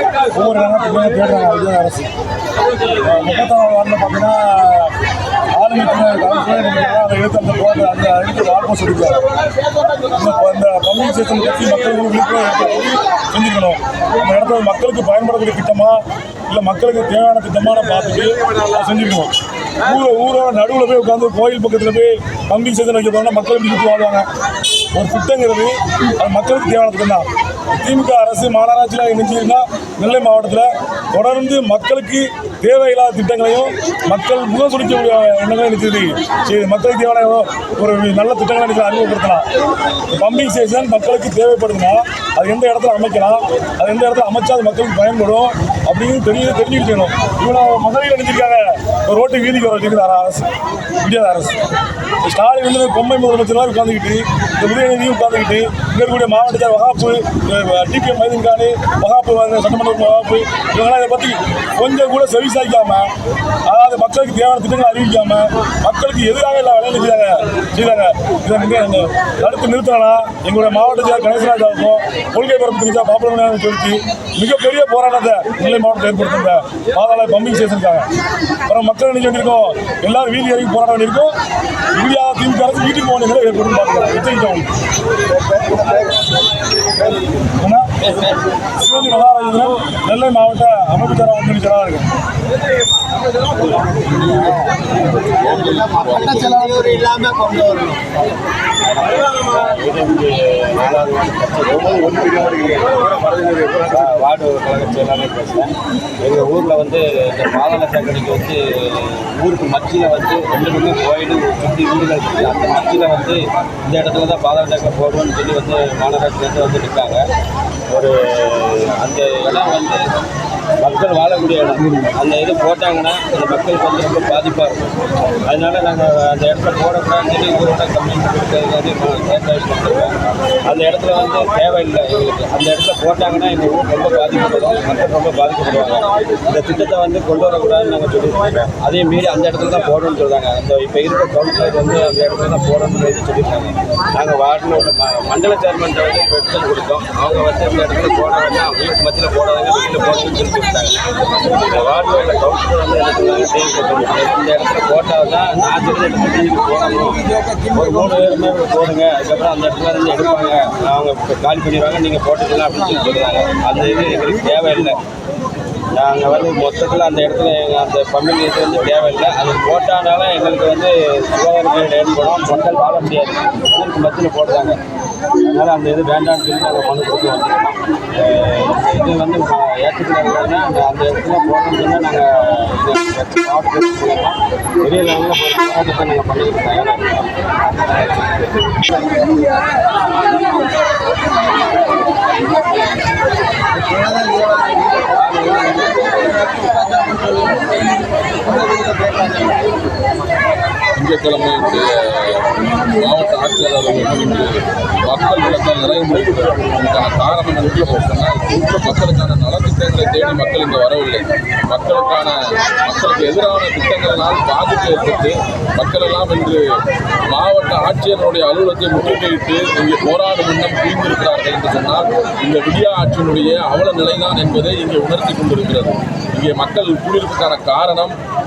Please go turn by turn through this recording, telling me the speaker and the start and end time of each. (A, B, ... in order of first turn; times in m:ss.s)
0:00.3-0:02.1 A
0:03.0-0:04.9 A
0:05.6-0:09.2 A
0:10.1-0:19.3 A
0:19.8-0:24.2 A
0:24.9-0:39.4 A
0:40.1-0:50.4 A
0:51.0-0:51.6 A
0:52.2-1:03.1 A
1:03.7-1:18.1 A
1:18.7-1:21.4 A
1:21.9-1:24.7 A
1:25.4-1:26.1 B
1:27.6-1:27.9 A
1:28.8-1:32.1 A
1:33.9-1:36.6 C
1:35.8-1:38.0 B
1:38.8-1:57.2 D
1:57.9-2:00.0 D
2:00.8-2:04.9 D
2:05.4-2:31.0 D
2:31.5-2:45.0 D
2:45.9-2:54.8 D
2:55.4-3:07.4 D
3:13.9-3:15.0 B
3:15.0-3:16.4 D
3:16.5-3:17.5 B
3:18.4-3:19.5 B
3:20.9-3:36.6 C
3:37.3-3:48.2 C